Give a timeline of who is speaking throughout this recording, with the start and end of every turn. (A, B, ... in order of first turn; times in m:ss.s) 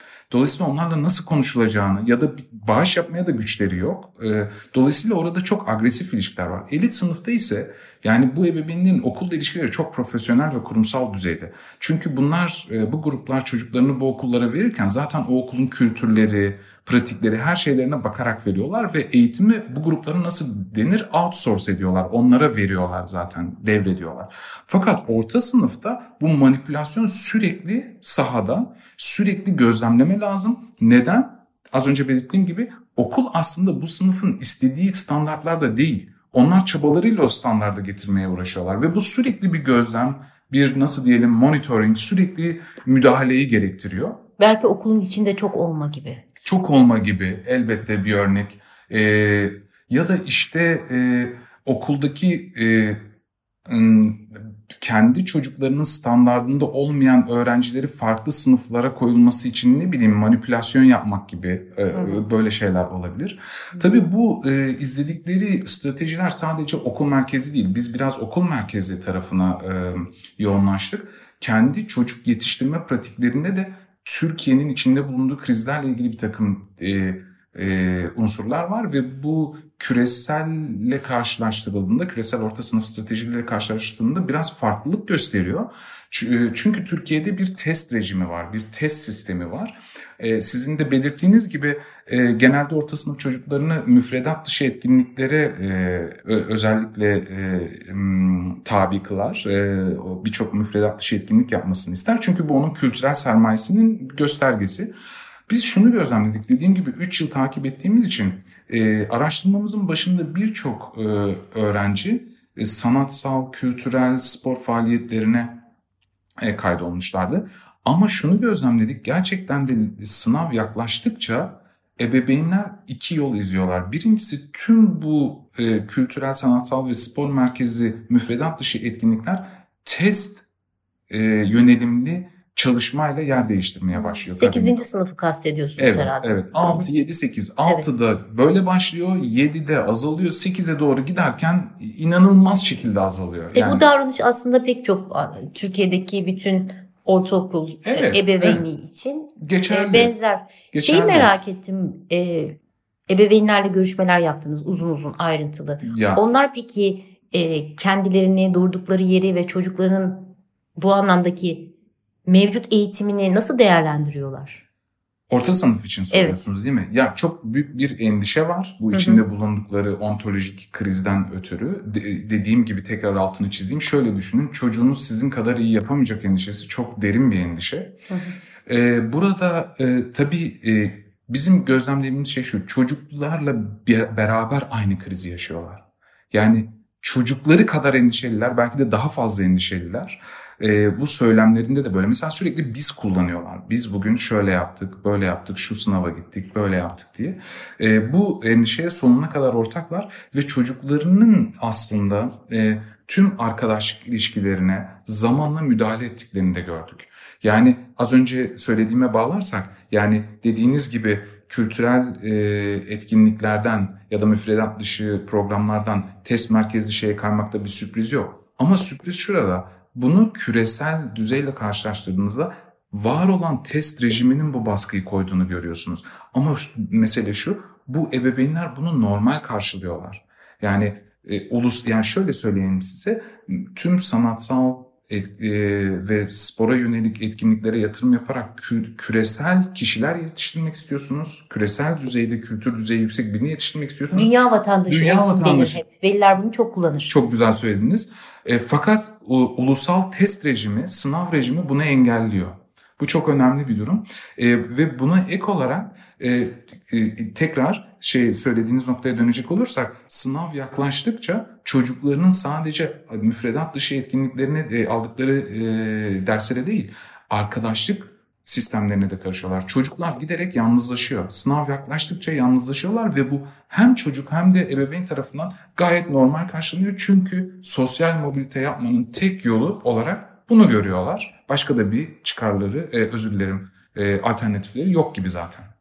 0:00.3-0:44.2 A
0:44.4-0:46.2 B
0:46.4-0:53.0 A
0:53.7-1:44.9 A
1:01.9-1:02.2 B
1:45.5-1:55.6 A
1:56.4-2:10.4 A
2:11.1-2:14.8 A
2:13.9-2:16.9 B
2:15.8-2:23.8 A
2:23.5-2:32.6 B
2:27.8-2:28.6 A
2:29.4-2:30.1 A
2:30.7-2:31.3 A
2:33.1-2:41.7 B
2:35.8-2:36.3 A
2:42.3-2:44.6 B
2:45.3-2:58.0 A
2:46.1-2:46.4 B
2:48.9-2:49.2 B
2:58.1-2:58.4 B
2:58.7-4:04.3 A
4:04.1-4:07.1 B
4:04.9-4:05.8 A
4:07.1-4:45.7 A